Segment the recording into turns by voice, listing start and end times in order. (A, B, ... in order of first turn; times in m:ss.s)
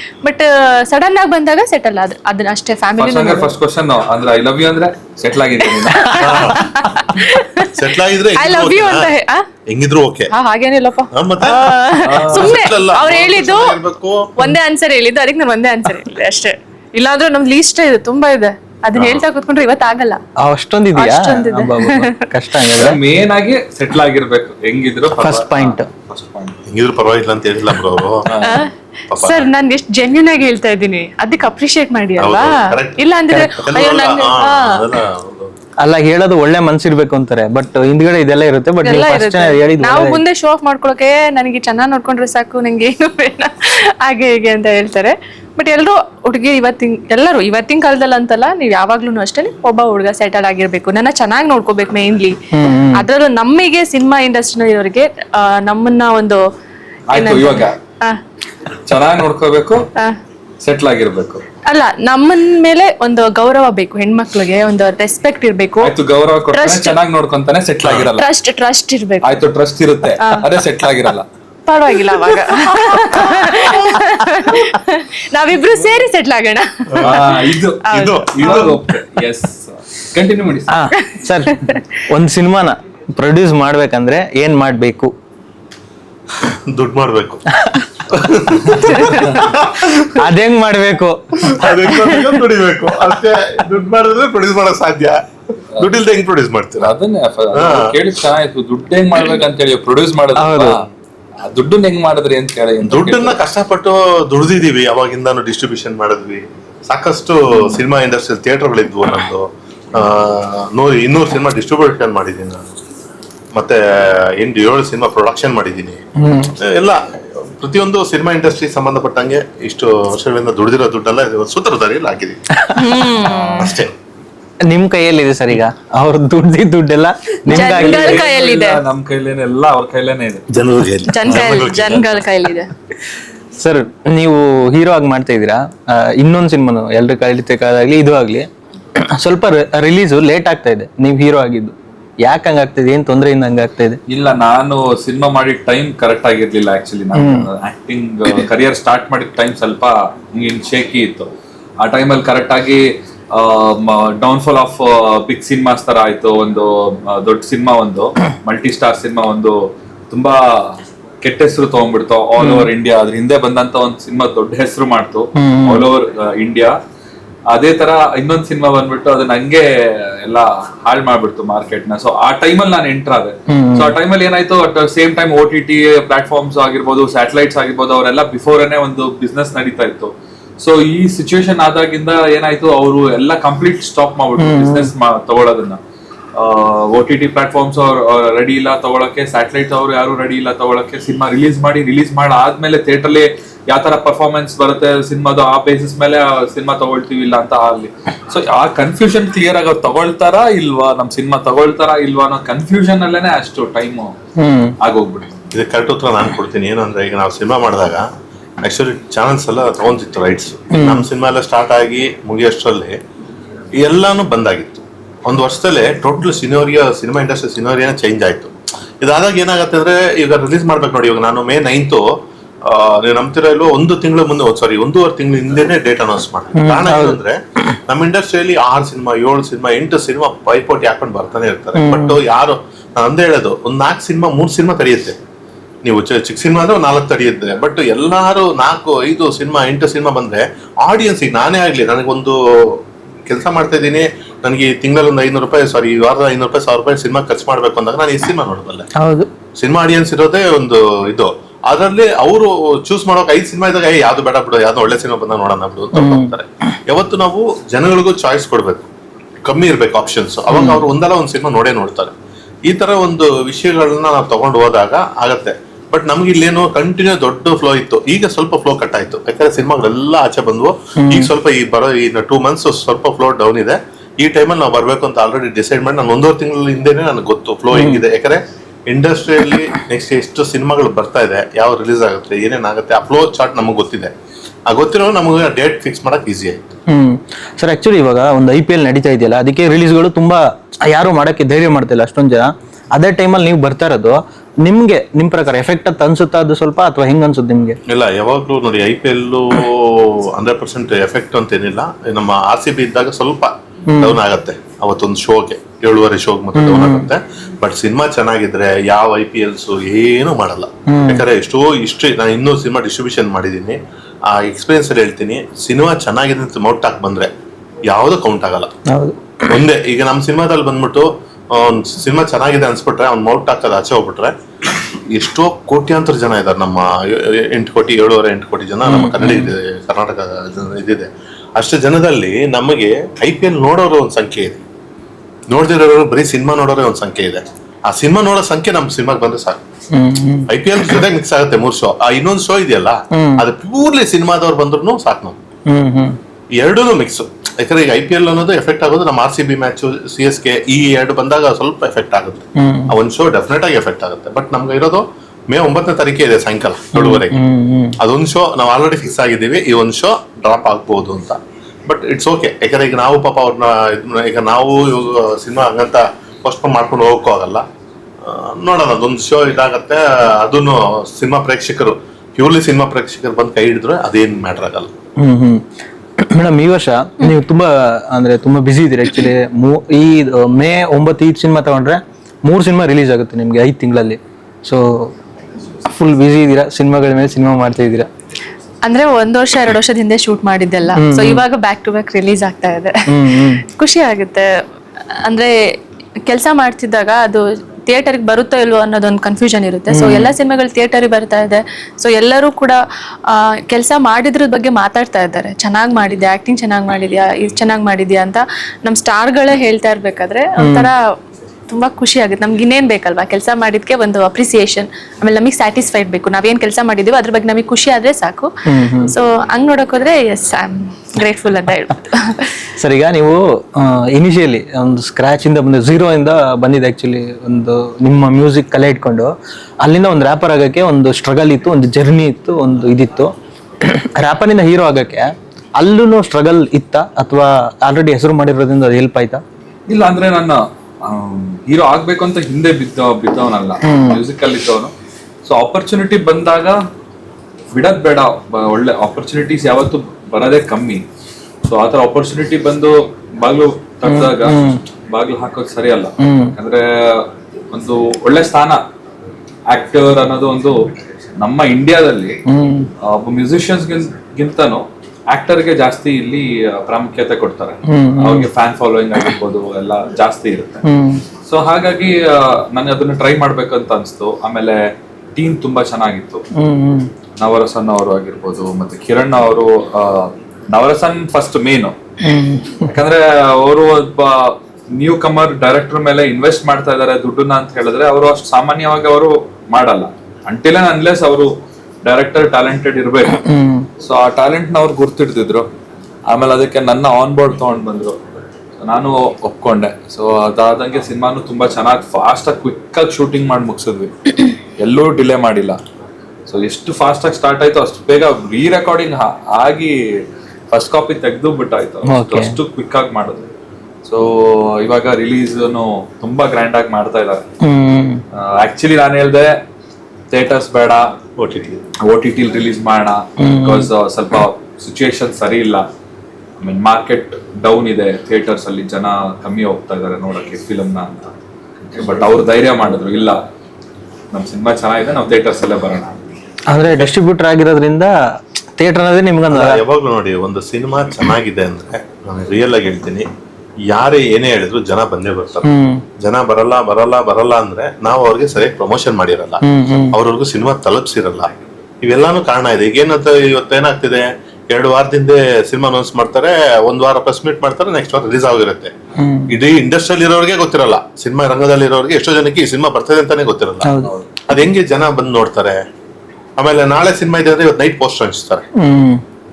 0:00.2-0:03.5 A
0:03.0-0:06.6 B
0:05.8-0:07.8 A
0:06.1-0:06.7 C
0:07.7-0:09.1 C
0:08.3-0:09.5 A
0:09.7-0:10.3 C
0:10.3-0:13.8 A
0:11.1-0:14.4 C
0:12.0-0:12.6 B
0:14.4-0:20.2 A
0:18.9-0:19.2 C
0:20.4-0:23.0 D
0:20.9-0:22.2 A
0:22.7-0:26.6 B
0:25.2-0:25.9 D
0:26.6-0:28.3 C
0:28.2-0:28.6 B
0:28.4-0:34.9 A
0:29.1-0:29.5 C
0:32.2-0:33.0 C
0:33.3-0:33.6 D
0:33.6-0:35.5 C
0:35.8-0:40.2 D
0:38.8-0:56.4 A
0:52.5-0:53.0 D
0:57.1-0:57.8 B
0:57.1-0:58.2 A
0:58.8-0:59.8 B
1:00.6-1:01.4 B
1:01.6-1:05.9 A
1:05.8-1:08.3 B
1:06.5-1:07.0 A
1:07.8-1:08.1 C
1:08.1-1:09.4 A
1:09.2-1:11.3 B
1:10.2-1:10.5 A
1:11.6-1:18.8 A
1:13.5-1:14.6 C
1:16.9-1:17.3 C
1:17.0-1:20.7 B
1:17.8-1:18.8 C
1:20.7-1:25.1 D
1:21.5-1:21.8 A
1:26.4-1:27.4 C
1:28.1-1:30.2 C
1:28.8-1:29.4 A
1:30.1-1:31.8 D
1:31.4-1:36.9 C
1:36.8-1:40.9 B
1:37.5-1:38.0 C
1:40.4-1:40.8 D
1:41.4-1:43.4 B
1:42.8-1:52.6 C
1:53.5-1:56.0 C
1:56.2-1:56.5 D
1:56.6-2:02.4 C
2:02.6-2:02.9 D
2:02.8-2:03.8 A
2:03.0-2:03.9 C
2:04.6-2:08.2 D
2:07.5-2:08.8 A
2:07.5-2:10.5 B
2:10.5-2:12.1 C
2:11.1-2:12.7 A
2:11.2-2:11.5 B
2:13.6-2:24.0 D
2:24.1-2:31.3 B
2:27.1-2:27.5 D
2:31.8-2:46.8 B
2:42.4-2:42.7 D
2:45.4-2:45.8 D
2:47.5-3:05.8 B
2:53.5-2:53.9 D
3:04.4-3:04.9 D
3:06.3-3:24.1 B
3:24.4-3:24.7 D
3:24.8-3:25.4 B
3:25.5-3:28.0 C
3:28.6-3:33.0 C
3:30.7-3:31.0 D
3:33.8-3:55.2 C
3:46.5-3:47.2 D
3:51.7-3:52.2 D
3:55.8-4:08.9 C
4:08.9-4:09.3 D
4:09.6-4:18.9 C
4:15.9-4:16.3 D
4:19.4-4:22.1 C
4:20.5-4:20.8 D
4:22.7-4:44.1 C
4:31.0-4:31.3 D
4:37.7-4:38.0 D
4:44.7-4:46.6 C
4:46.9-4:57.8 D
4:57.9-5:17.3 C
5:03.9-5:04.2 D
5:06.5-5:07.1 D
5:10.9-5:11.2 D
5:17.9-5:18.7 C
5:18.9-5:19.2 D
5:19.5-5:24.3 C
5:24.9-5:34.6 C
5:28.8-5:29.5 D
5:35.5-5:39.6 C
5:39.9-5:40.5 D
5:40.5-5:45.4 C
5:43.1-5:43.4 D
5:45.6-5:46.2 D
5:46.5-5:57.4 C
5:52.6-5:52.9 D
5:56.9-5:58.0 D
5:58.0-6:07.6 C
6:08.2-6:14.9 C
6:15.2-6:15.6 D
6:16.2-6:25.1 D
6:25.8-6:28.1 D
6:28.8-6:34.6 A
6:31.0-6:31.4 D
6:33.1-6:33.6 D
6:35.1-6:51.2 A
6:39.9-6:40.3 D
6:50.6-6:50.9 D
6:51.7-7:02.5 A
6:58.6-6:59.1 D
7:02.8-7:19.4 D
7:19.9-7:24.9 B
7:23.8-7:24.2 D
7:25.4-7:26.8 B
7:27.7-7:31.0 B
7:31.6-7:38.8 B
7:34.0-7:34.8 D
7:36.2-7:36.5 D
7:39.7-7:42.4 B
7:42.4-7:42.9 D
7:43.0-7:50.8 B
7:47.8-7:48.5 D
7:50.8-7:51.2 D
7:51.4-7:56.4 B
7:56.5-7:57.1 D
7:57.4-8:01.9 B
8:02.2-8:02.9 D
8:02.8-8:13.4 B
8:13.4-8:13.9 D
8:14.0-8:15.7 B
8:16.3-8:18.2 B
8:18.8-8:25.8 B
8:26.4-8:33.4 B
8:32.1-8:32.5 D
8:34.0-8:37.4 B
8:37.6-8:38.2 D
8:38.3-8:39.6 B
8:40.3-8:41.1 B
8:41.4-8:41.8 C
8:42.0-8:45.8 B
8:43.4-8:43.9 D
8:46.6-8:51.3 B
8:51.9-8:53.4 B
8:54.3-8:56.2 B
8:56.7-8:59.8 D
8:59.5-9:03.3 C
9:03.9-9:11.5 C
9:05.6-9:06.0 D
9:09.6-9:10.2 D
9:12.0-9:18.9 C
9:19.2-9:19.5 D
9:19.5-9:23.9 C
9:23.8-9:24.1 D
9:24.5-9:25.8 C
9:26.6-9:28.6 C
9:28.8-9:29.2 D